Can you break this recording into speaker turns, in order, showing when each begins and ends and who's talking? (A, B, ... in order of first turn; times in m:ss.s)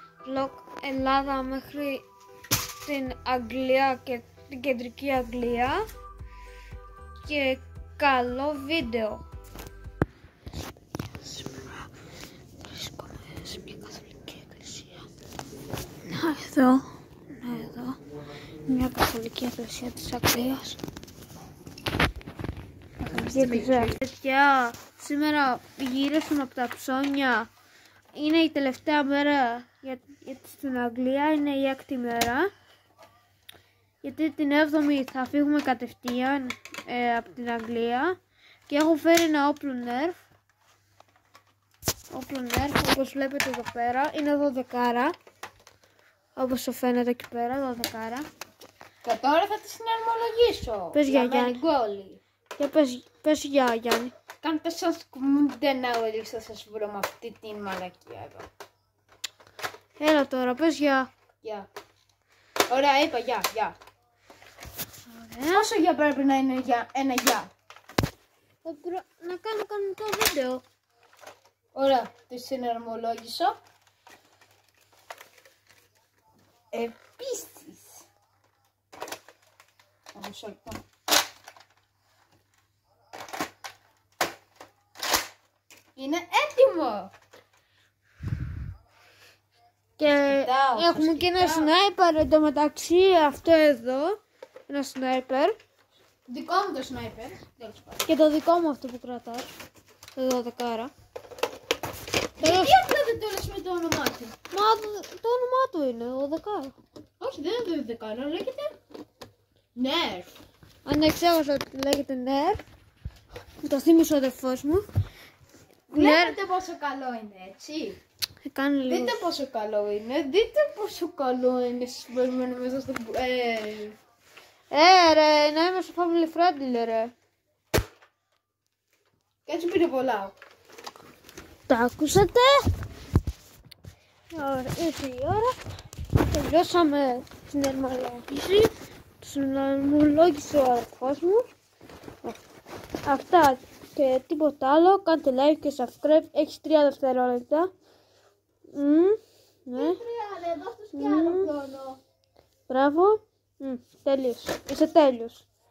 0:00.2-0:02.0 A
0:02.8-0:05.8 A
0:07.2-0:09.2 A
0:11.2-0:11.8 A
0:12.6-0:15.1 A
0:16.0-0:18.0 A
0:18.6-0:20.8 A
0:23.0-0:27.5 A
0:23.1-0:24.0 B
0:28.1-0:32.5 A
0:34.0-0:38.2 A
0:38.7-0:40.2 A
0:42.1-0:45.1 A
0:46.3-0:48.2 A
0:49.0-0:52.2 B
0:50.9-0:51.6 A
0:52.6-0:54.1 A
0:54.4-0:58.5 B
1:00.0-1:01.1 A
1:01.4-1:01.7 B
1:02.7-1:03.8 B
1:05.1-1:05.7 A
1:05.5-1:07.5 B
1:08.6-1:10.6 A
1:11.7-1:13.6 B
1:16.7-1:18.0 B
1:20.1-1:20.8 B
1:26.0-1:27.1 B
1:30.0-1:34.2 A
1:30.2-1:31.7 B
1:34.7-1:35.6 A
1:36.3-1:38.1 B
1:38.1-1:39.5 A
1:40.1-1:40.9 A
1:42.4-1:44.3 B
1:42.4-1:42.8 A
1:44.5-1:46.7 A
1:47.2-1:48.7 B
1:49.7-1:50.4 B
1:50.8-1:52.6 A
1:53.6-1:54.8 A
1:55.9-1:56.4 A
1:55.9-1:58.0 B
1:58.4-1:59.2 A
1:58.9-2:04.0 B
2:04.7-2:07.1 A
2:09.4-2:10.3 B
2:11.7-2:12.6 A
2:14.3-2:15.6 A
2:16.2-2:21.4 A
2:23.0-2:27.7 A
2:28.7-2:30.0 A
2:29.7-2:32.0 B
2:31.0-2:31.5 A
2:32.7-2:35.4 A